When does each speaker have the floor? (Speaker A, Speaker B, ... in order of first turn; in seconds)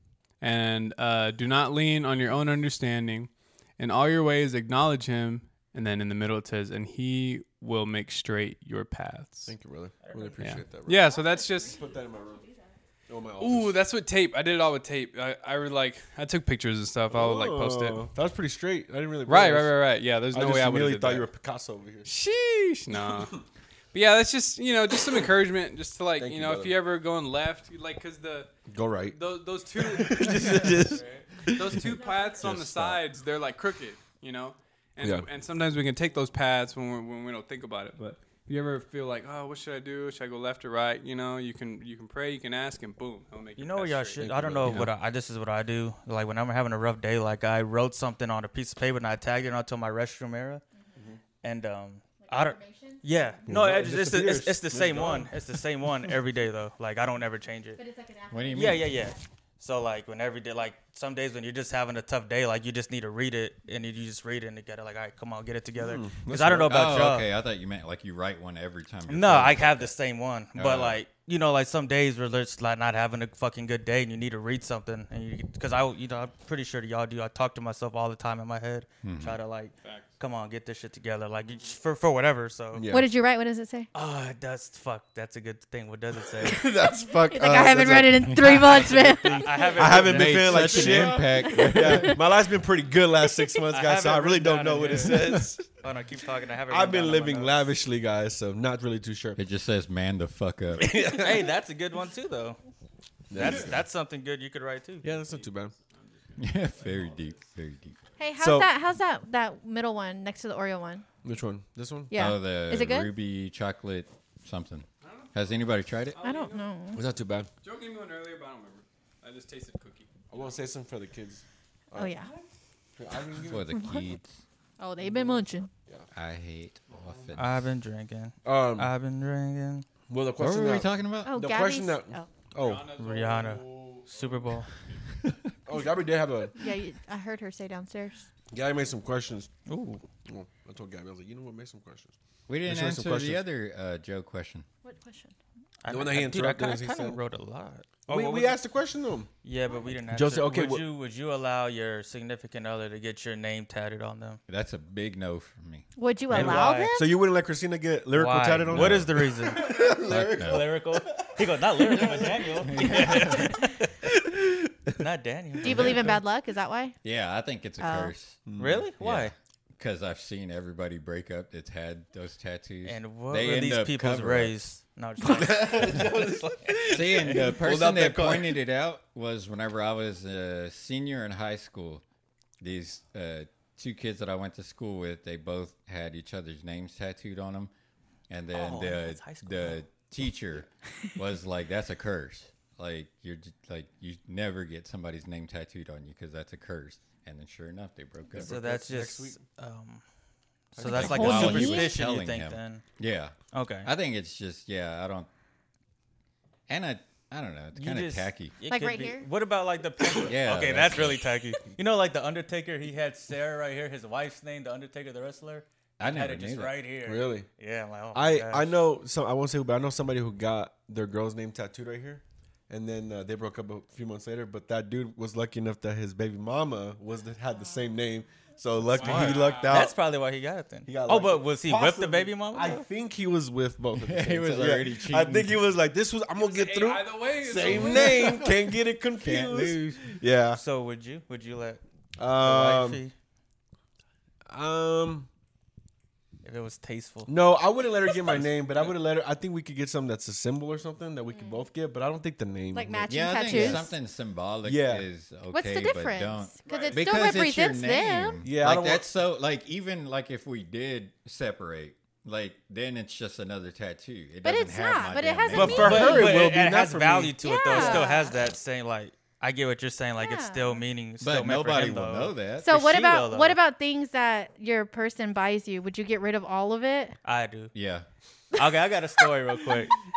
Speaker A: 0.4-9.5, 10.4-11.8, 13.4-18.0, 19.2-21.3, 22.0-28.5, 29.1-44.9, 79.8-80.1, 105.2-107.4, 115.0-116.7, 117.6-120.5, 126.9-127.3, 132.6-135.0, 228.9-229.9, 236.3-238.4, 256.6-257.4
Speaker B: 9.5-12.4, 13.1-13.8, 17.1-19.8, 20.3-22.1, 23.0-23.2, 26.2-26.8, 28.7-29.2, 29.7-32.9, 35.0-35.3, 44.2-44.9, 53.5-55.3, 65.8-67.0, 82.7-83.1, 86.4-89.0, 89.7-95.7, 96.7-99.4, 100.8-101.5, 103.3-103.8, 105.0-105.7, 108.4-108.7, 111.2-112.1, 116.9-117.5, 120.3-122.2, 123.0-123.7, 125.0-126.1, 128.4-128.9, 130.1-133.3, 135.7-136.6, 138.5-139.5, 140.2-143.4, 145.9-147.2, 148.1-149.3, 150.1-150.8, 156.3-163.5, 164.0-164.9, 165.7-166.1, 168.4-168.8, 175.2-178.6, 198.3-199.4, 200.8-201.7, 217.0-217.5, 218.1-229.9, 230.8-240.6, 242.2-243.0, 244.5-245.3, 247.3-253.8, 254.6-255.1, 258.4-259.1, 265.5-268.1
Speaker C: 10.0-10.4, 30.7-31.2, 43.6-50.6, 51.4-57.8, 58.5-67.2, 69.1-82.9, 83.9-86.6, 88.4-91.1, 93.7-97.6, 100.8-102.6, 103.3-105.1, 127.3-129.9, 133.0-134.7, 139.7-140.0, 145.8-148.6, 149.4-154.4, 156.3-156.9, 158.1-163.8, 165.0-166.1, 168.6-169.3, 172.8-177.5, 188.5-189.8, 198.4-200.0, 200.7-202.8, 203.5-203.9, 207.7-218.7, 229.0-232.8, 240.5-241.8, 242.3-243.1, 246.4-247.3, 265.6-273.6, 277.2-277.7, 278.5-279.9
Speaker D: 11.0-12.8, 31.8-32.4, 52.2-53.4, 57.8-59.1, 82.9-83.9, 86.5-90.0, 91.2-92.2, 108.2-111.0, 112.1-113.1, 116.2-117.0, 121.9-122.3, 123.7-124.1, 124.8-125.7, 131.2-132.3, 136.5-138.3, 144.8-145.3, 155.9-157.1, 165.6-166.9, 167.8-168.1, 200.9-202.0, 208.7-209.3, 251.3-251.6, 252.7-253.9, 255.5-258.4, 264.4-266.3, 267.4-268.4, 270.2-270.8, 272.6-277.1
Speaker E: 32.4-32.9, 58.3-58.9, 66.7-69.9, 70.5-71.0, 79.0-79.4, 90.1-92.2, 99.3-101.0, 106.4-108.0, 112.1-116.2, 123.4-124.4, 126.1-127.7, 130.4-131.4, 142.5-144.7, 154.5-155.8, 158.7-159.1, 159.9-160.7, 162.6-163.5, 165.7-166.2, 167.0-168.4, 169.0-174.6, 176.9-182.0, 182.6-187.7, 188.3-198.5, 200.8-205.3, 206.7-208.6, 210.2-211.3, 216.0-216.8, 234.0-235.6, 237.7-238.5, 239.2-240.1, 253.1-266.2, 271.2-272.7, 277.7-278.1